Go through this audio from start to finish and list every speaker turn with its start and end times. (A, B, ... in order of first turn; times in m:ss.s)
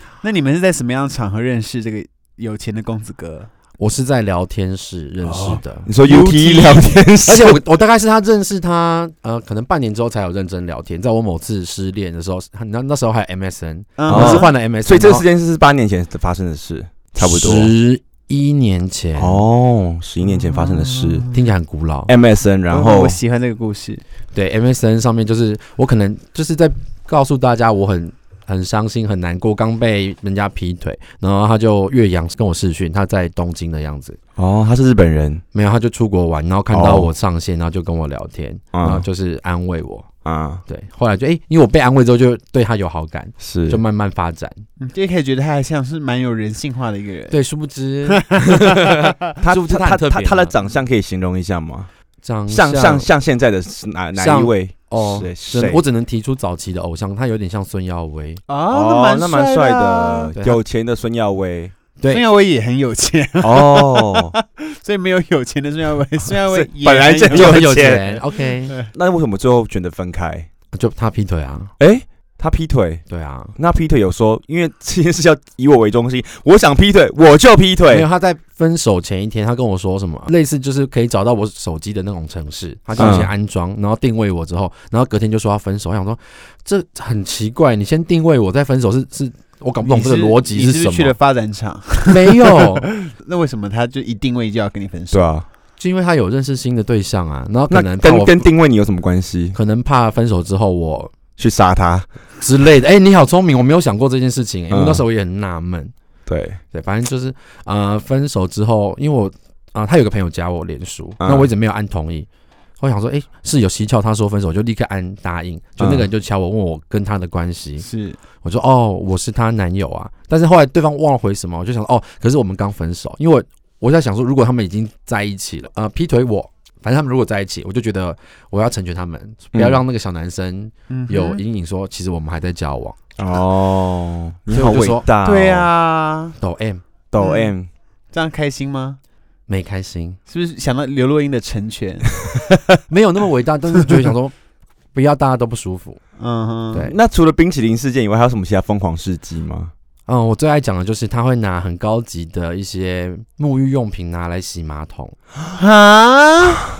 0:00.2-0:03.5 A
0:03.8-0:06.7 B
0:05.2-0:07.0 A
0:05.8-0:07.6 C
0:07.2-0:15.2 B
0:14.0-0:14.5 A
0:14.1-0:17.7 C
0:17.2-0:19.4 B
0:19.2-0:21.3 C
0:20.3-0:21.4 A
0:21.3-0:22.1 B
0:22.1-0:23.2 C
0:22.7-0:24.0 A
0:24.3-0:34.2 B
0:34.4-0:35.4 C
0:35.5-0:40.1 B
0:36.7-0:37.1 C
0:38.7-0:39.0 C
0:40.2-0:40.6 C
0:40.7-0:44.6 B
0:43.4-0:43.8 C
0:44.8-0:47.4 A
0:47.3-0:50.5 B
0:48.0-0:49.1 A
0:49.4-0:51.9 C
0:52.2-0:53.1 B
0:52.5-0:55.8 C
0:54.2-0:58.4 B
0:58.5-1:00.3 A
0:58.7-1:01.7 C
1:02.1-1:08.9 A
1:03.4-1:04.3 C
1:06.5-1:08.1 C
1:07.3-1:08.8 B
1:08.8-1:10.5 C
1:10.7-1:11.7 B
1:11.8-1:13.0 C
1:13.1-1:13.6 B
1:13.6-1:18.0 C
1:17.9-1:31.1 B
1:23.0-1:23.3 C
1:29.8-1:35.3 A
1:32.1-1:32.9 B
1:35.1-1:35.4 C
1:35.8-1:38.4 B
1:37.7-1:39.6 C
1:39.5-1:41.1 B
1:41.4-1:42.1 C
1:42.4-1:45.9 B
1:44.7-1:45.0 C
1:46.3-1:46.6 C
1:46.7-1:52.3 B
1:51.2-1:51.5 C
1:52.8-1:57.9 B
1:55.8-1:56.1 C
1:57.8-1:58.2 A
1:58.4-2:13.0 B
2:09.5-2:09.8 C
2:10.9-2:11.4 A
2:13.2-2:15.7 C
2:14.5-2:15.0 B
2:15.2-2:16.4 A
2:16.4-2:16.8 B
2:17.1-2:17.7 C
2:17.2-2:17.5 A
2:18.1-2:19.0 A
2:19.5-2:20.2 B
2:20.3-2:22.3 A
2:22.9-2:24.3 B
2:24.9-2:26.0 B
2:26.2-2:26.9 A
2:26.8-2:29.7 C
2:30.1-2:35.2 B
2:35.5-2:36.7 A